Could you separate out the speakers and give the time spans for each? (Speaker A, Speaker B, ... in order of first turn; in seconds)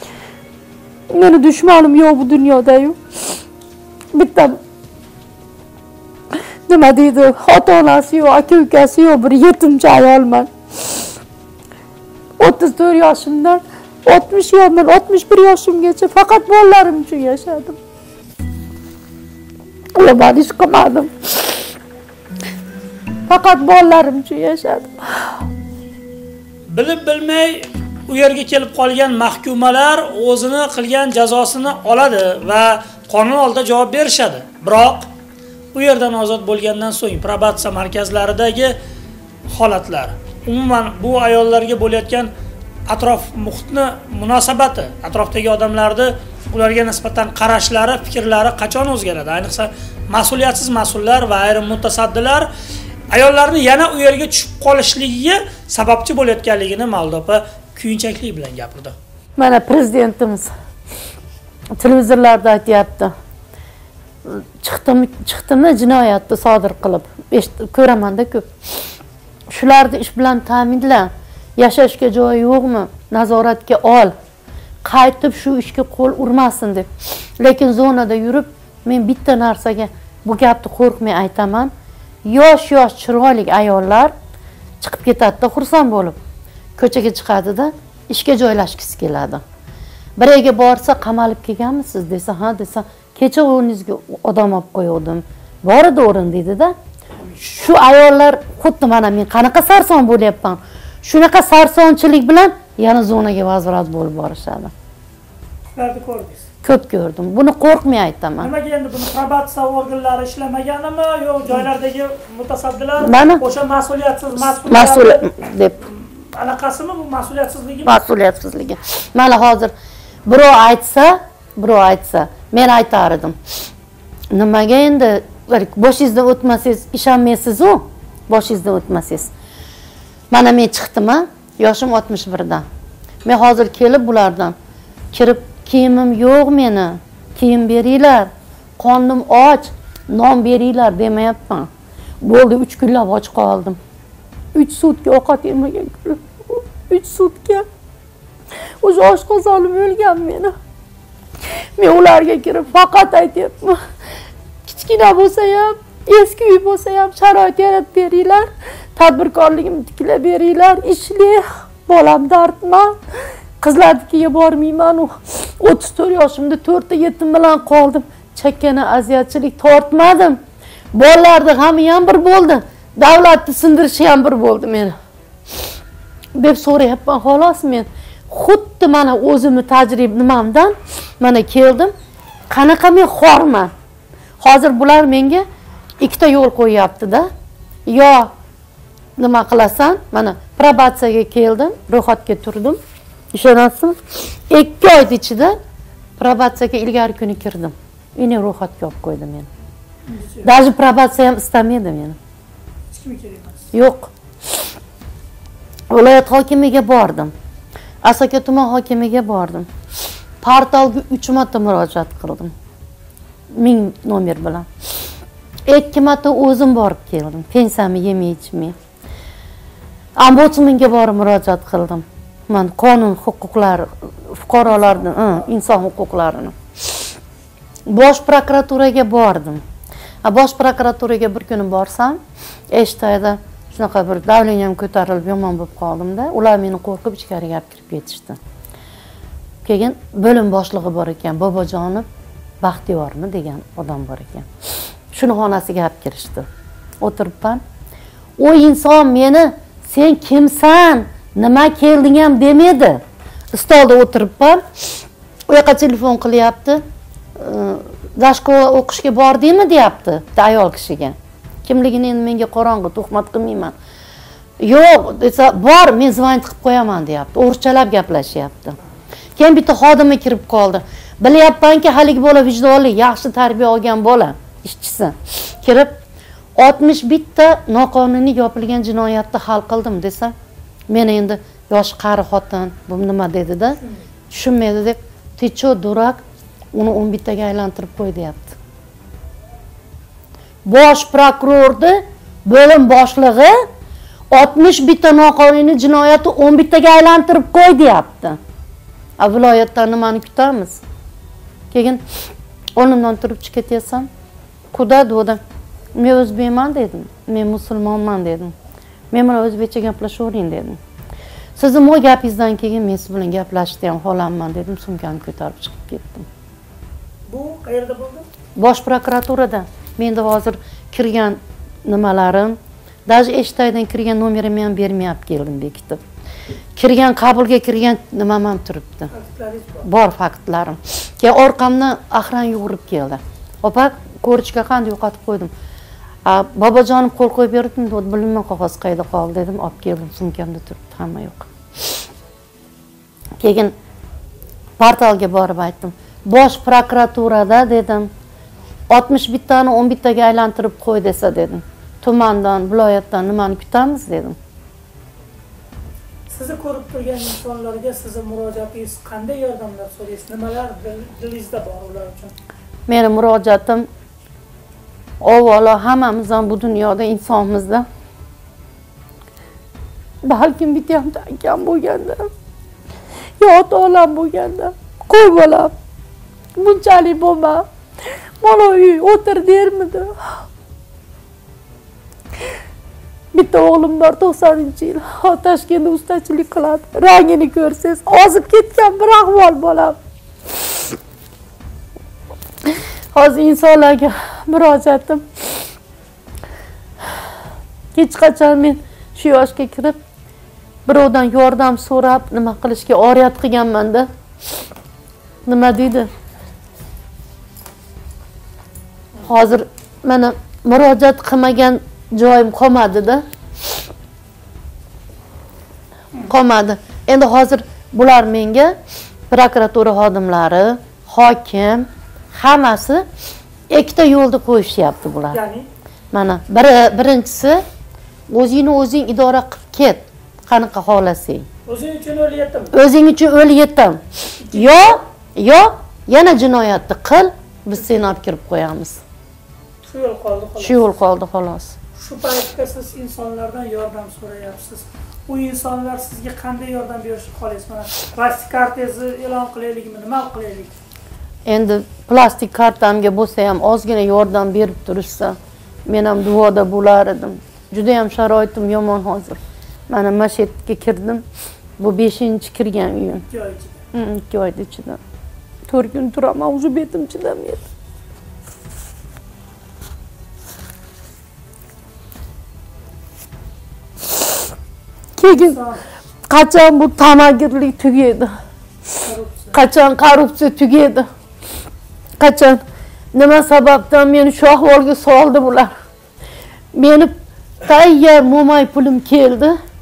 Speaker A: 1.1-3.0, 4.1-4.6, 6.7-11.0, 12.4-17.8, 19.9-21.7, 23.3-25.4, 59.4-60.5, 61.8-63.1, 64.2-68.5, 69.5-74.1, 74.8-76.9, 77.4-81.7, 82.3-84.1, 84.8-86.2, 86.8-89.4, 90.2-96.7, 97.4-104.7, 106.6-108.5, 113.0-113.4, 114.4-115.8, 117.8-119.7, 120.2-123.4, 124.3-129.3, 130.3-132.6, 133.2-134.5, 135.1-141.7, 142.2-143.8, 144.5-147.6, 148.8-150.5, 151.5-153.8, 154.7-162.9, 163.6-170.4, 170.9-174.9, 176.3-181.9, 182.5-183.7, 184.4-185.4, 186.0-187.3, 187.8-188.3, 189.2-192.8, 193.3-195.6, 196.2-199.5, 200.4-202.2, 203.7-204.1, 205.9-207.3, 208.0-209.7, 210.4-212.5, 213.5-214.7, 215.7-218.7, 220.2-227.1, 227.9-229.6, 230.2-232.2, 232.7-238.4, 239.6-242.1, 242.6-244.5, 245.1-246.5, 247.0-247.6, 248.4-253.0, 253.5-254.6, 255.5-256.8, 257.4-263.7, 264.6-268.8, 269.4-275.9, 276.6-280.3, 280.9-286.2, 286.7-288.6, 290.6-293.6, 294.3-298.4, 299.2-300.8, 301.7-302.0, 302.8-304.1, 304.7-305.4, 305.9-308.5, 309.1-310.8, 311.6-316.3, 318.6-326.0, 326.7-329.1, 329.8-335.5, 336.2-342.1, 343.4-343.7, 344.8-348.1, 348.9-354.4, 362.9-363.9, 365.2-367.9, 370.2-372.3, 373.4-375.7, 376.6-377.7, 378.4-380.4, 383.3-390.0, 393.1-395.6, 397.9-400.0, 400.9-404.1, 405.4-406.1, 409.2-413.2, 416.2-418.8, 419.3-423.1, 423.7-425.4, 426.1-427.6, 428.3-431.5, 432.7-439.0, 440.6-441.8, 451.4-459.4, 459.9-461.2, 461.8-463.2, 463.9-465.0, 465.7-467.6, 475.2-475.6, 476.3-478.3, 479.5-481.1, 482.2-482.6, 483.1-485.7, 486.7-489.6
Speaker B: 26.7-35.1, 35.7-38.8, 39.5-42.3, 42.9-52.5, 53.1-58.9, 105.7-106.4, 108.4-115.3, 115.9-117.9, 200.1-200.5, 202.9-203.7, 317.3-318.2, 329.1-329.9, 356.3-362.3, 425.3-425.7, 431.6-432.7, 434.4-435.0, 439.8-440.8, 442.0-450.7, 463.3-463.8, 475.2-475.8, 479.0-479.5